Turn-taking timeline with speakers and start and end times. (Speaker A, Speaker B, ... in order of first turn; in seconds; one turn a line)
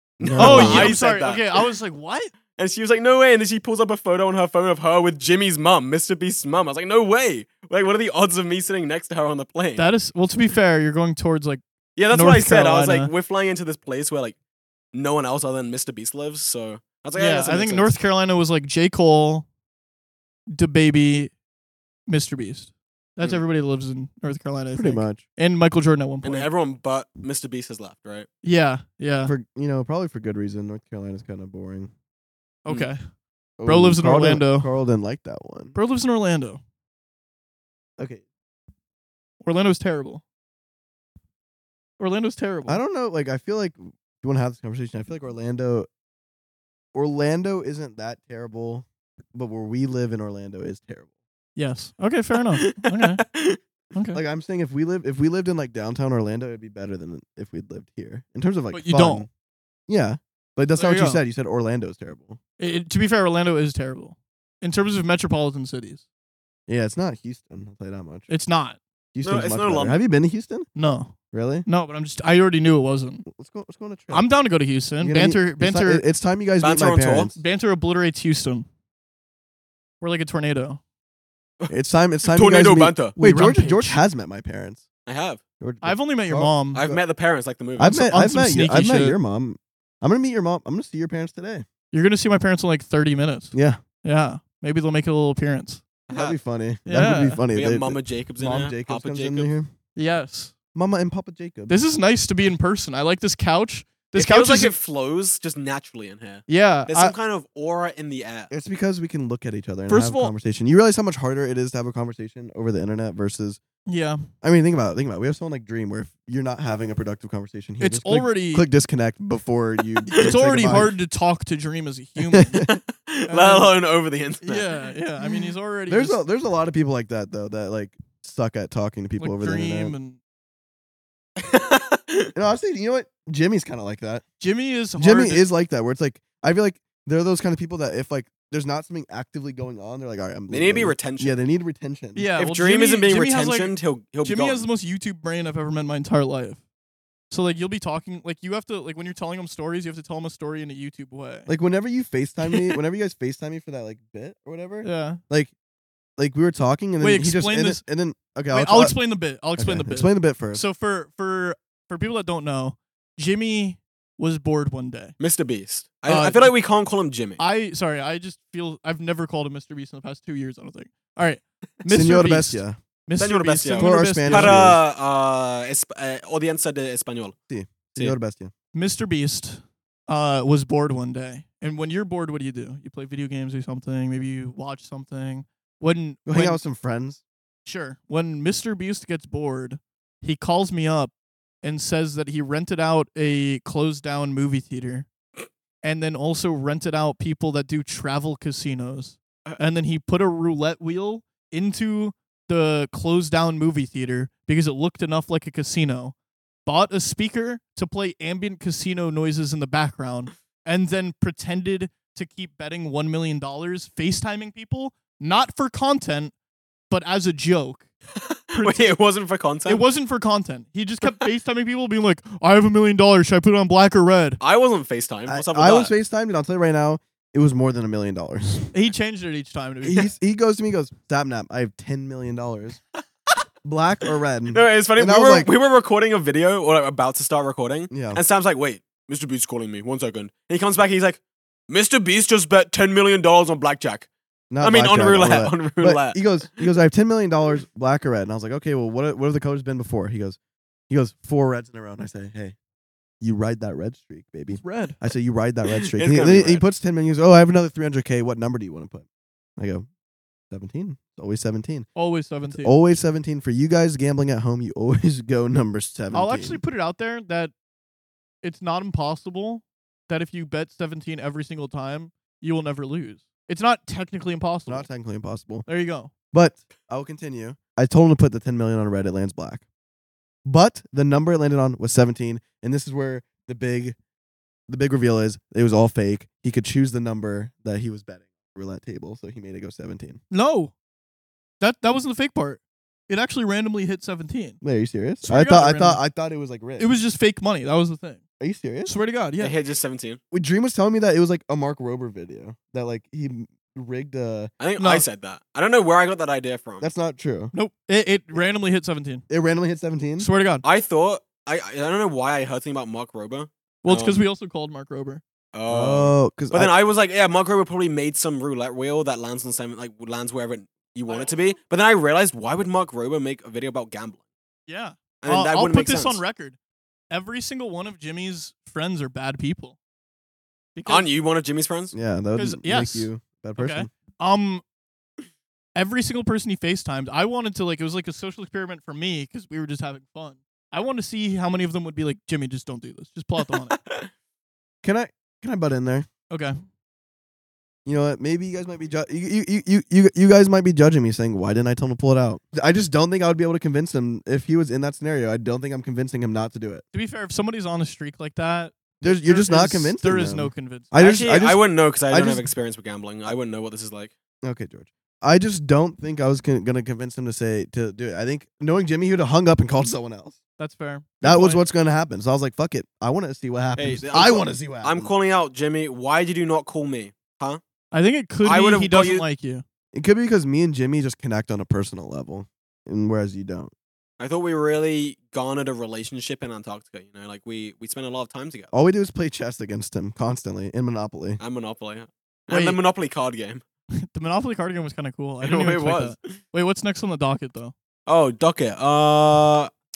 Speaker A: 0.2-1.7
Speaker B: 0.2-0.9
Speaker C: 0.4-2.3
Speaker A: 2.6-9.8
Speaker C: 9.8-13.1
Speaker A: 11.9-14.4
Speaker A: 14.9-17.9
Speaker C: 17.1-19.4
Speaker C: 20.5-21.3
Speaker C: 22.1-26.5
Speaker B: 24.7-25.2
Speaker A: 26.2-28.3
Speaker C: 28.4-29.3
Speaker B: 29.2-31.9
Speaker C: 32.6-33.0
Speaker B: 33.6-35.8
Speaker C: 33.6-34.7
Speaker C: 35.7-36.6
Speaker B: 38.0-38.2
Speaker C: 39.4-40.2
Speaker C: 42.0-42.8
Speaker B: 42.7-45.9
Speaker B: 46.9-51.1
Speaker C: 51.5-53.2
Speaker A: 52.6-53.6
Speaker C: 53.9-54.2
Speaker B: 54.1-59.3
Speaker C: 58.7-59.2
Speaker B: 59.9-62.4
Speaker C: 60.8-61.2
Speaker C: 62.6-66.0
Speaker B: 66.7-68.3
Speaker C: 68.3-68.8
Speaker B: 69.1-70.7
Speaker A: 69.2-70.0
Speaker C: 70.8-73.2
Speaker B: 71.3-71.7
Speaker B: 73.3-74.2
Speaker C: 74.1-76.0
Speaker B: 75.0-77.4
Speaker A: 76.6-77.3
Speaker C: 77.3-78.7
Speaker C: 80.0-80.8
Speaker B: 81.7-84.8
Speaker A: 82.2-83.2
Speaker C: 83.2-84.0
Speaker A: 85.0-85.4
Speaker B: 85.6-87.0
Speaker C: 85.8-86.8
Speaker A: 86.7-88.0
Speaker B: 87.8-91.7
Speaker C: 87.8-89.2
Speaker C: 91.9-95.8
Speaker B: 93.5-93.8
Speaker A: 96.1-96.4
Speaker B: 96.1-99.7
Speaker C: 96.9-97.4
Speaker A: 97.5-99.5
Speaker C: 100.0-100.5
Speaker B: 100.7-101.8
Speaker C: 101.7-104.7
Speaker A: 104.1-108.5
Speaker C: 106.5-107.1
Speaker B: 108.5-113.6
Speaker C: 109.9-110.3
Speaker C: 113.9-114.2
Speaker B: 114.4-120.9
Speaker C: 117.8-118.7
Speaker C: 120.1-122.7
Speaker B: 122.3-122.7
Speaker A: 122.7-124.7
Speaker C: 123.3-123.7
Speaker C: 124.4-126.2
Speaker B: 125.2-129.9
Speaker C: 129.2-130.2
Speaker A: 131.4-132.3
Speaker B: 132.3-134.2
Speaker C: 134.4-135.4
Speaker B: 135.0-142.3
Speaker A: 140.5-141.3
Speaker C: 142.1-146.6
Speaker A: 142.4-144.7
Speaker C: 147.3-151.5
Speaker B: 151.5-155.5
Speaker C: 154.8-155.2
Speaker B: 156.2-158.9
Speaker C: 157.0-157.8
Speaker C: 158.5-165.2
Speaker B: 159.6-160.6
Speaker A: 165.2-167.4
Speaker C: 166.1-166.5
Speaker C: 167.4-174.7
Speaker B: 171.9-172.8
Speaker A: 173.2-177.3
Speaker B: 173.8-174.8
Speaker B: 177.5-178.5
Speaker C: 178.7-186.6
Speaker B: 186.3-187.2
Speaker C: 187.7-195.1
Speaker C: 195.8-206.1
Speaker C: 206.7-216.3
Speaker C: 216.9-217.9
Speaker A: 218.2-219.8
Speaker C: 218.5-218.9
Speaker C: 219.7-224.4
Speaker A: 224.4-225.9
Speaker B: 225.3-228.7
Speaker C: 228.7-230.1
Speaker B: 229.8-232.8
Speaker B: 233.6-235.5
Speaker A: 234.5-244.1
Speaker B: 237.9-238.2
Speaker B: 244.5-250.4
Speaker A: 244.6-246.2
Speaker B: 250.9-252.5
Speaker B: 253.2-259.1
Speaker C: 254.5-255.0
Speaker A: 255.7-256.6
Speaker B: 259.6-259.9
Speaker B: 260.5-261.9
Speaker C: 261.9-262.7
Speaker B: 262.5-266.6
Speaker C: 266.1-267.5
Speaker C: 268.4-274.9
Speaker B: 274.7-275.6
Speaker C: 275.6-276.1
Speaker B: 276.3-279.6
Speaker B: 280.4-283.9
Speaker B: 284.7-290.2
Speaker C: 290.3-290.7
Speaker C: 291.6-294.6
Speaker B: 294.6-296.9
Speaker C: 295.2-296.0
Speaker C: 296.8-298.2
Speaker B: 298.4-298.9
Speaker C: 298.8-299.5
Speaker A: 299.4-300.2
Speaker B: 300.3-304.5
Speaker A: 304.6-306.9
Speaker C: 304.8-305.0
Speaker B: 306.8-307.5
Speaker C: 307.5-309.2
Speaker B: 309.3-310.3
Speaker C: 310.2-310.6
Speaker A: 310.6-314.2
Speaker C: 313.8-315.2
Speaker A: 315.5-324.2
Speaker B: 315.7-316.7
Speaker C: 321.1-321.4
Speaker C: 324.7-326.6
Speaker A: 325.2-326.2
Speaker C: 327.1-329.8
Speaker C: 330.8-331.1
Speaker A: 330.9-331.9
Speaker B: 331.9-333.9
Speaker C: 332.4-334.6
Speaker C: 335.8-343.8
Speaker A: 343.7-344.1
Speaker B: 344.8-346.1
Speaker C: 346.3-346.6
Speaker B: 347.9-356.8
Speaker C: 356.9-360.9
Speaker B: 359.0-362.4
Speaker A: 360.9-364.1
Speaker B: 364.4-370.4
Speaker C: 370.6-371.6
Speaker B: 371.2-375.1
Speaker A: 373.8-377.6
Speaker C: 377.9-379.6
Speaker A: 378.4-379.2
Speaker B: 379.9-383.7
Speaker A: 384.2-388.7
Speaker B: 388.7-391.4
Speaker A: 391.4-393.6
Speaker C: 392.5-392.8
Speaker C: 394.0-397.7
Speaker A: 395.4-396.4
Speaker A: 398.1-399.7